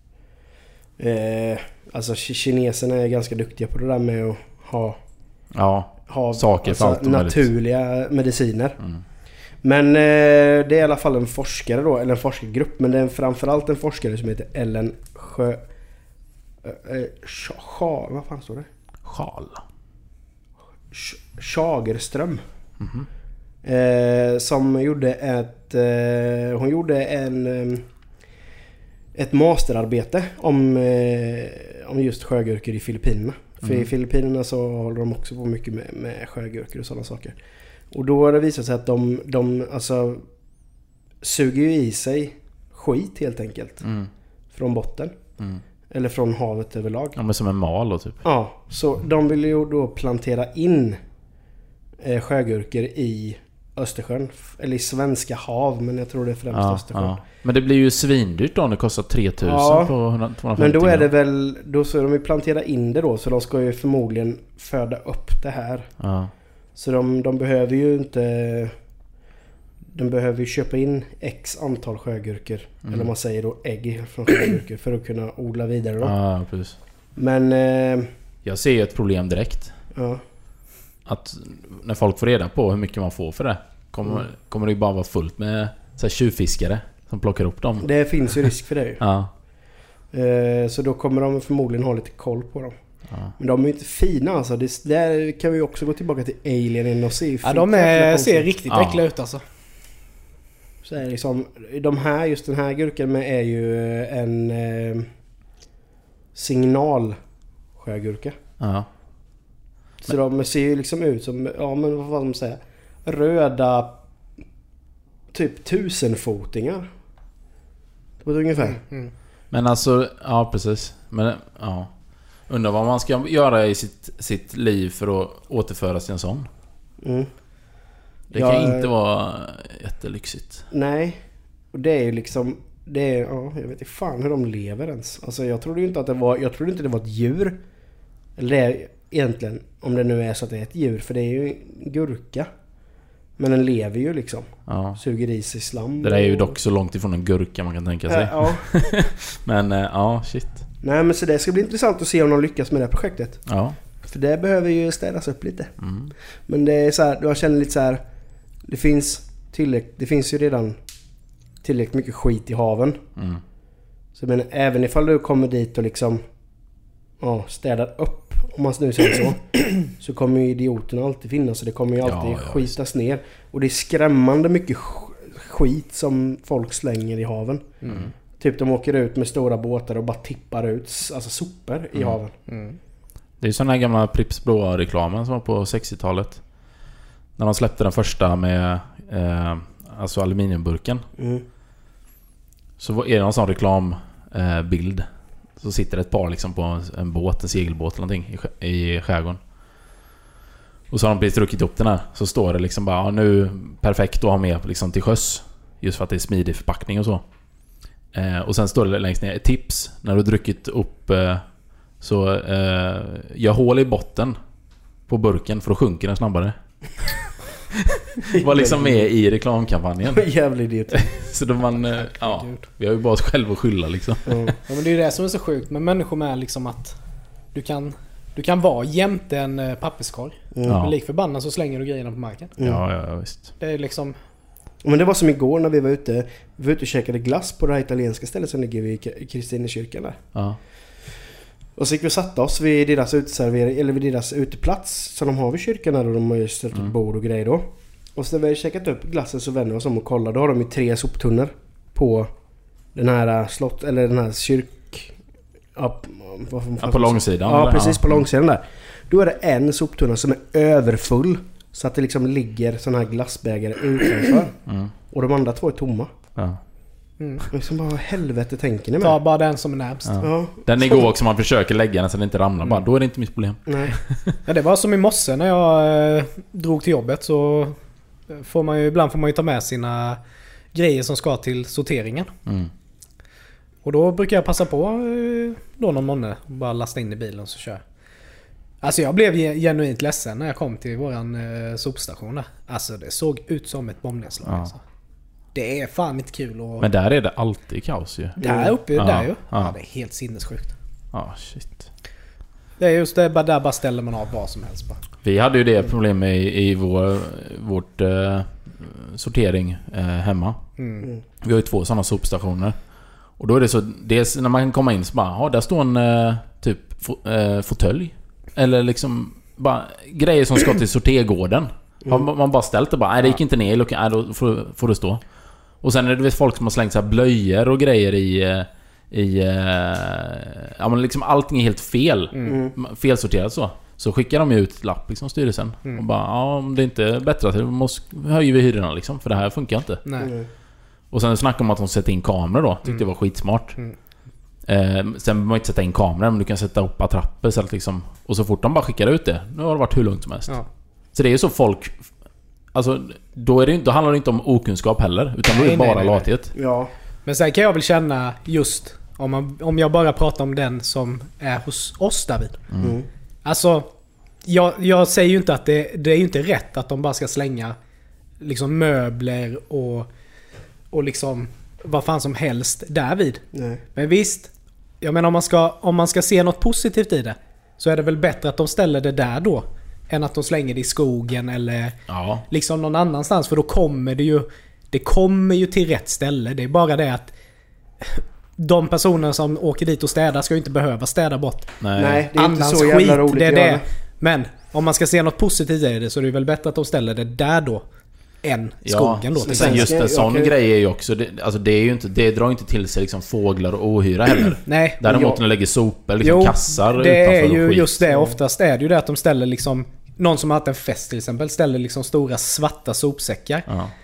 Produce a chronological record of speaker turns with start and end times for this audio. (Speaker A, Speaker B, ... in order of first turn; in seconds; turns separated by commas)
Speaker A: 1.0-5.0, Speaker B: 5.5-7.5, Speaker A: 6.1-8.8, Speaker A: 9.6-15.6, Speaker A: 16.6-18.7, Speaker B: 19.1-19.6, Speaker A: 20.9-22.4, Speaker B: 22.8-23.1, Speaker A: 23.6-27.9, Speaker A: 29.1-37.4, Speaker B: 33.6-33.9, Speaker A: 37.9-40.2, Speaker A: 41.2-43.8, Speaker B: 43.8-44.1, Speaker A: 44.5-45.2, Speaker A: 45.9-47.2, Speaker B: 47.2-48.2, Speaker A: 48.2-51.0, Speaker A: 52.0-57.2, Speaker B: 56.5-61.1, Speaker A: 59.4-59.9, Speaker A: 60.6-65.9, Speaker B: 66.0-66.3, Speaker A: 66.8-68.7, Speaker A: 69.9-76.1, Speaker B: 72.8-73.1, Speaker B: 76.0-76.8, Speaker A: 77.2-78.1, Speaker B: 78.5-79.7, Speaker A: 79.9-80.2, Speaker B: 81.1-88.5, Speaker A: 87.8-89.0, Speaker B: 89.0-89.3, Speaker A: 90.1-92.7, Speaker A: 93.4-98.5, Speaker C: 97.4-99.4, Speaker B: 98.7-99.0, Speaker A: 100.8-105.1, Speaker A: 106.3-107.2, Speaker A: 107.8-108.4, Speaker B: 108.6-108.9, Speaker A: 110.0-114.0, Speaker A: 115.3-116.9, Speaker A: 118.2-118.8, Speaker C: 118.6-119.1, Speaker B: 119.5-121.9, Speaker B: 122.5-126.5, Speaker A: 127.0-127.3, Speaker A: 128.3-128.9, Speaker B: 128.3-130.7, Speaker A: 130.7-131.2, Speaker A: 131.7-137.6, Speaker A: 138.4-142.5, Speaker A: 143.4-146.6, Speaker B: 144.7-145.0, Speaker B: 146.0-150.6, Speaker A: 148.1-148.7, Speaker A: 150.8-153.4, Speaker B: 153.5-153.8, Speaker A: 154.0-155.7, Speaker B: 155.8-156.1, Speaker A: 156.5-158.0, Speaker A: 158.7-160.8, Speaker A: 161.6-163.0, Speaker B: 163.2-163.4, Speaker A: 164.2-166.2, Speaker A: 167.2-177.8, Speaker B: 172.0-172.7, Speaker B: 177.8-178.1, Speaker A: 178.4-182.3, Speaker C: 182.5-182.8, Speaker B: 183.4-186.4, Speaker B: 187.4-191.1, Speaker A: 191.2-191.4, Speaker B: 192.8-195.1, Speaker B: 195.6-199.4, Speaker B: 200.9-207.2, Speaker B: 208.1-211.4, Speaker B: 212.0-214.4, Speaker B: 215.1-217.2, Speaker B: 217.7-220.2, Speaker A: 218.3-219.1, Speaker A: 220.1-221.1, Speaker B: 220.9-224.5, Speaker C: 222.2-222.6, Speaker A: 224.3-224.6, Speaker C: 224.7-227.0, Speaker C: 227.5-232.6, Speaker A: 230.6-230.8, Speaker B: 230.7-230.9, Speaker B: 232.6-233.5, Speaker C: 233.6-234.2, Speaker A: 234.8-240.2, Speaker B: 240.3-240.6, Speaker A: 241.8-252.3, Speaker A: 252.9-255.2, Speaker A: 255.8-264.6, Speaker B: 256.8-258.2, Speaker B: 264.7-264.9, Speaker A: 265.1-266.1, Speaker C: 267.2-267.5, Speaker A: 267.5-269.2, Speaker C: 269.0-270.2, Speaker B: 270.1-274.4, Speaker A: 270.2-271.0, Speaker A: 273.7-273.9, Speaker C: 274.5-277.8, Speaker C: 278.3-280.2, Speaker C: 280.7-282.3, Speaker B: 282.5-282.7, Speaker C: 283.9-287.8, Speaker C: 288.8-294.8, Speaker B: 294.5-294.7, Speaker C: 295.5-296.9, Speaker B: 296.8-298.4, Speaker C: 298.4-300.7, Speaker A: 298.4-298.8, Speaker B: 298.9-299.7, Speaker B: 301.1-301.9, Speaker C: 302.8-305.0, Speaker B: 305.2-310.6, Speaker C: 310.8-311.1, Speaker B: 311.4-312.8, Speaker B: 313.4-325.2, Speaker B: 325.8-340.0, Speaker C: 332.3-332.6, Speaker A: 332.4-332.8, Speaker C: 340.1-340.3, Speaker A: 340.2-340.5, Speaker B: 341.1-343.8, Speaker B: 344.7-350.6, Speaker B: 351.1-352.0, Speaker B: 352.7-356.5, Speaker C: 355.5-356.3, Speaker A: 356.6-356.9, Speaker C: 357.3-362.7, Speaker A: 362.8-363.1, Speaker C: 363.4-363.9, Speaker C: 364.4-367.8, Speaker C: 368.4-370.1, Speaker C: 370.9-373.4, Speaker A: 373.5-373.8, Speaker C: 373.9-374.5, Speaker C: 375.0-382.0, Speaker B: 382.1-382.5, Speaker C: 382.5-387.3, Speaker C: 388.0-391.8, Speaker B: 391.8-392.2, Speaker A: 392.0-393.9, Speaker C: 392.3-397.8, Speaker C: 398.4-399.9, Speaker B: 398.9-408.0, Speaker A: 399.4-400.5, Speaker C: 404.7-405.0, Speaker A: 405.1-405.4, Speaker C: 406.2-413.7, Speaker A: 408.1-408.4